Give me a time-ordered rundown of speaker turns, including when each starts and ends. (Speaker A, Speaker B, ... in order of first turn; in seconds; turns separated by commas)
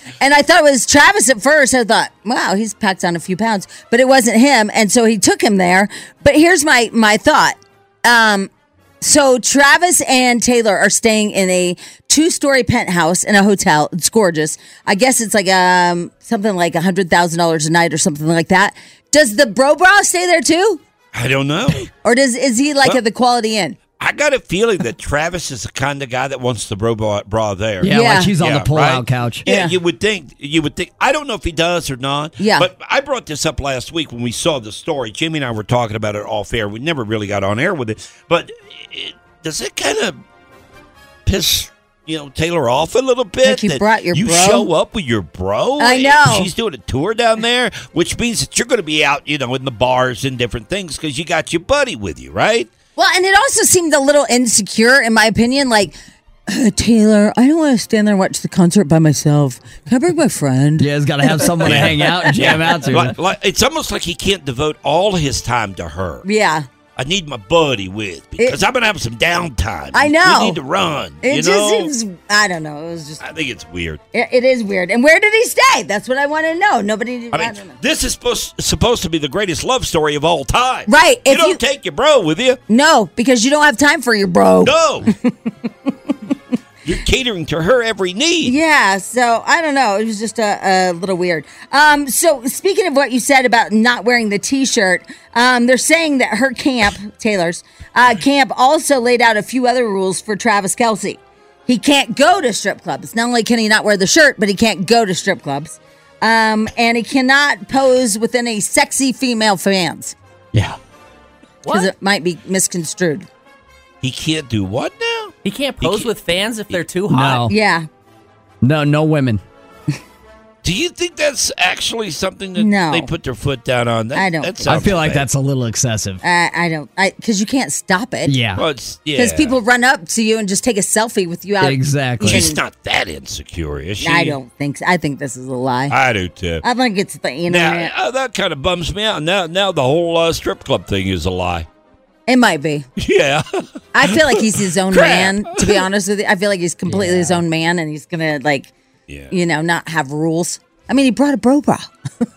Speaker A: 0.2-8.5, Speaker A: 9.0-20.8, Speaker B: 21.1-21.9, Speaker A: 22.0-23.8, Speaker B: 24.0-40.2, Speaker C: 27.8-29.4, Speaker A: 27.9-28.4, Speaker A: 29.5-29.8, Speaker A: 32.4-32.7, Speaker B: 41.3-52.7, Speaker A: 43.4-44.7, Speaker A: 45.8-46.5, Speaker A: 53.0-56.0, Speaker A: 56.5-62.7, Speaker C: 60.8-63.1, Speaker B: 61.6-66.2, Speaker A: 66.2-66.7, Speaker B: 67.0-71.9, Speaker A: 69.9-70.6, Speaker A: 71.2-73.2, Speaker B: 73.2-74.0, Speaker A: 74.1-77.7, Speaker B: 77.3-82.6, Speaker A: 80.9-81.6, Speaker A: 82.7-85.9, Speaker B: 84.6-85.1, Speaker B: 86.8-88.6, Speaker A: 88.5-110.2, Speaker C: 110.5-110.8, Speaker D: 111.6-111.9, Speaker A: 111.7-113.3, Speaker B: 114.0-116.1, Speaker D: 115.4-117.5, Speaker C: 117.1-117.5, Speaker A: 117.5-117.9, Speaker C: 118.6-119.4, Speaker B: 120.6-125.3, Speaker A: 122.6-123.1, Speaker A: 124.1-124.7, Speaker C: 124.6-126.2, Speaker A: 126.2-128.4, Speaker C: 128.3-128.6, Speaker B: 128.6-129.6, Speaker A: 129.2-132.6, Speaker C: 131.6-132.5, Speaker B: 132.2-134.4, Speaker A: 134.0-135.9, Speaker B: 135.9-136.6, Speaker A: 136.6-137.9, Speaker B: 137.5-141.7, Speaker A: 142.3-142.9, Speaker B: 143.0-145.9, Speaker A: 143.9-148.7, Speaker C: 146.9-147.4, Speaker B: 149.1-149.3, Speaker A: 149.3-151.9